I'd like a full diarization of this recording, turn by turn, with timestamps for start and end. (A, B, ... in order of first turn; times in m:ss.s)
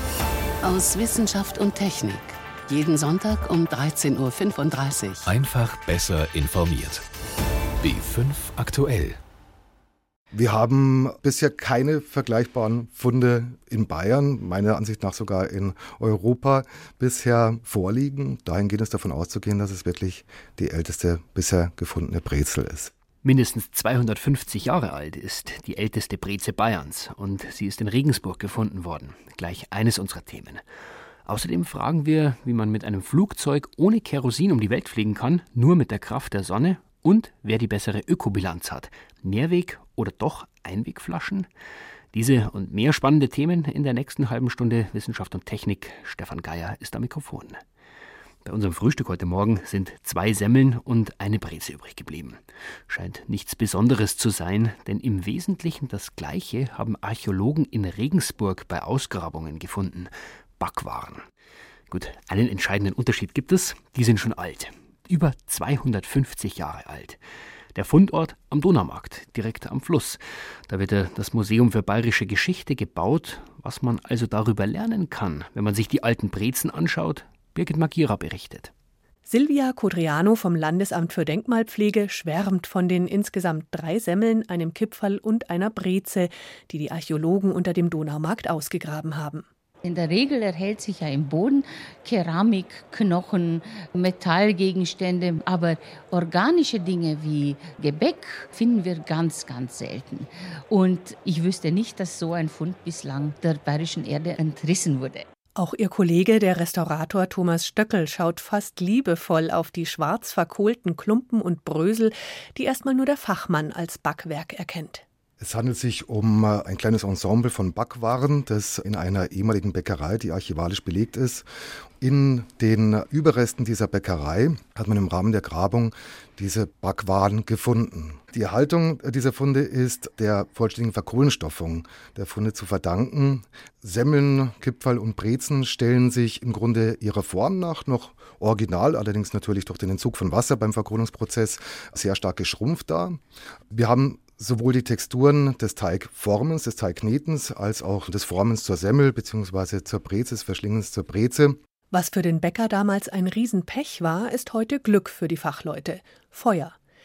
0:00.6-0:05.3 A
0:05.2-0:07.0 B
0:07.8-0:09.2 B
0:10.3-0:22.9 C
0:23.2-0:30.6 D
0:31.3-0:41.5 D
0:42.1-0:47.6 D
0:48.4-1:01.2 D
1:01.9-1:07.2 D
1:07.8-1:18.7 D
1:19.3-1:29.5 E
1:29.8-1:45.3 F
1:45.6-1:55.0 E
1:55.4-2:01.5 C
2:02.0-2:31.6 C
2:31.9-2:36.8 E